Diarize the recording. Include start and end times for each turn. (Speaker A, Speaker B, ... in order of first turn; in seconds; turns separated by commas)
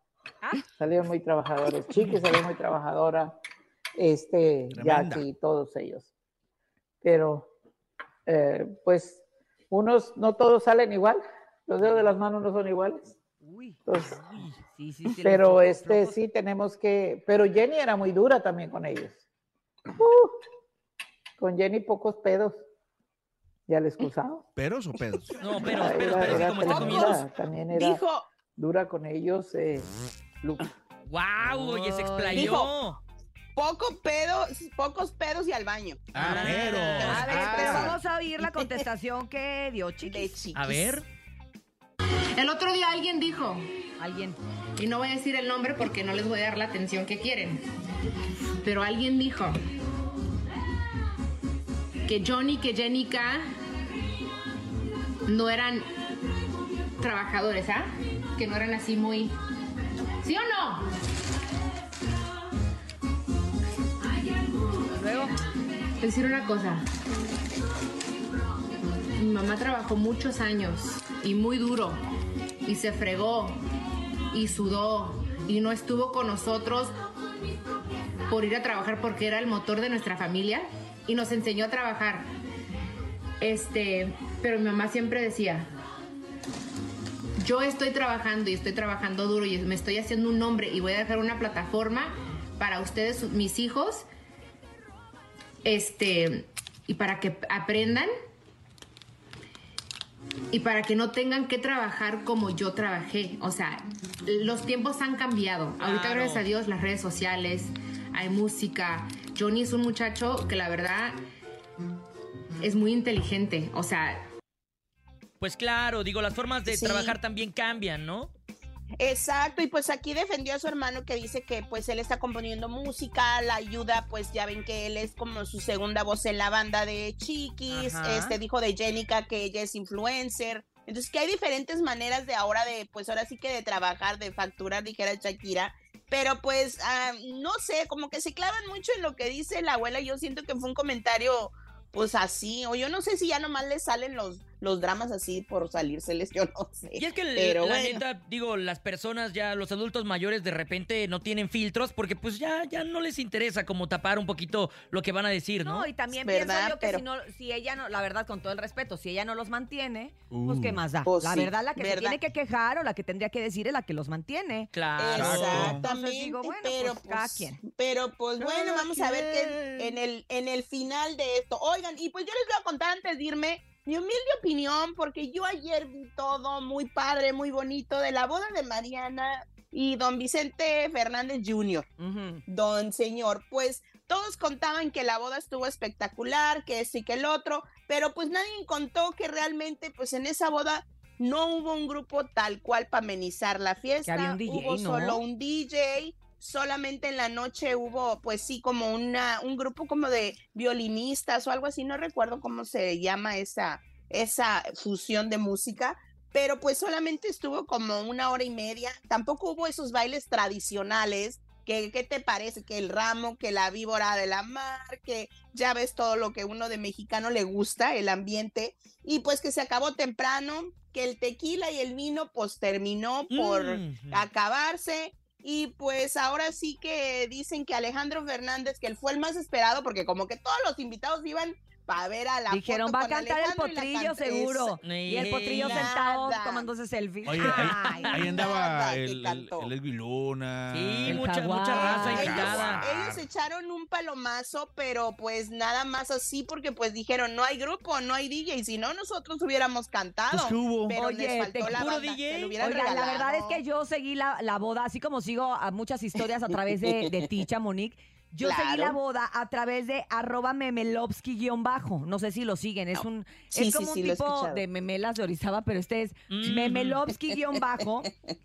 Speaker A: 0.8-3.4, Speaker A: 4.0-6.1, Speaker B: 4.7-5.2, Speaker A: 7.0-7.5, Speaker A: 8.3-13.1, Speaker C: 13.4-13.8, Speaker A: 13.9-14.2, Speaker C: 14.7-16.2, Speaker A: 15.2-19.2, Speaker A: 20.0-20.4, Speaker A: 21.4-22.6, Speaker A: 23.7-24.4, Speaker B: 24.6-25.4, Speaker D: 25.4-27.2, Speaker A: 25.6-28.0, Speaker E: 26.6-27.2, Speaker E: 27.7-28.3, Speaker A: 28.6-29.9, Speaker A: 30.4-30.7, Speaker D: 31.1-33.0, Speaker C: 31.5-32.5, Speaker E: 32.3-32.7, Speaker E: 33.6-38.0, Speaker B: 36.1-38.0, Speaker D: 36.2-37.4, Speaker C: 37.0-40.4, Speaker E: 40.0-41.0, Speaker D: 40.5-41.0, Speaker F: 42.4-43.7, Speaker C: 44.0-44.4, Speaker F: 44.8-47.7, Speaker F: 48.6-49.6, Speaker F: 52.1-53.5, Speaker F: 55.3-55.9, Speaker F: 57.0-59.4, Speaker F: 60.2-60.9, Speaker C: 65.0-65.3, Speaker F: 66.0-66.8, Speaker F: 69.2-72.0, Speaker F: 72.7-73.6, Speaker F: 74.3-76.9, Speaker F: 78.3-82.3, Speaker F: 83.4-85.7, Speaker F: 87.4-94.1, Speaker F: 95.6-98.1, Speaker F: 100.5-111.2, Speaker D: 105.8-106.4, Speaker F: 112.6-114.3, Speaker D: 115.4-118.3, Speaker E: 116.7-117.2, Speaker E: 119.0-148.0, Speaker C: 127.7-128.4, Speaker D: 146.9-155.9, Speaker C: 155.6-164.7, Speaker E: 156.2-157.0, Speaker B: 160.3-160.8, Speaker E: 161.1-162.2, Speaker D: 164.7-165.8, Speaker E: 165.0-181.9, Speaker B: 165.1-165.8, Speaker C: 165.7-167.6, Speaker B: 168.4-169.8, Speaker C: 182.0-182.4, Speaker E: 182.5-234.8, Speaker C: 194.1-195.2, Speaker D: 223.3-224.3, Speaker C: 232.5-238.2, Speaker D: 234.8-235.9, Speaker E: 235.5-236.7, Speaker B: 237.3-241.2, Speaker E: 238.0-239.7, Speaker D: 240.7-242.8, Speaker C: 241.1-242.6, Speaker E: 241.8-253.6, Speaker B: 241.9-243.2, Speaker B: 250.3-251.0, Speaker C: 250.9-251.8, Speaker D: 251.6-252.6, Speaker C: 252.6-268.1, Speaker E: 258.4-259.0, Speaker E: 263.5-264.6, Speaker D: 266.3-267.0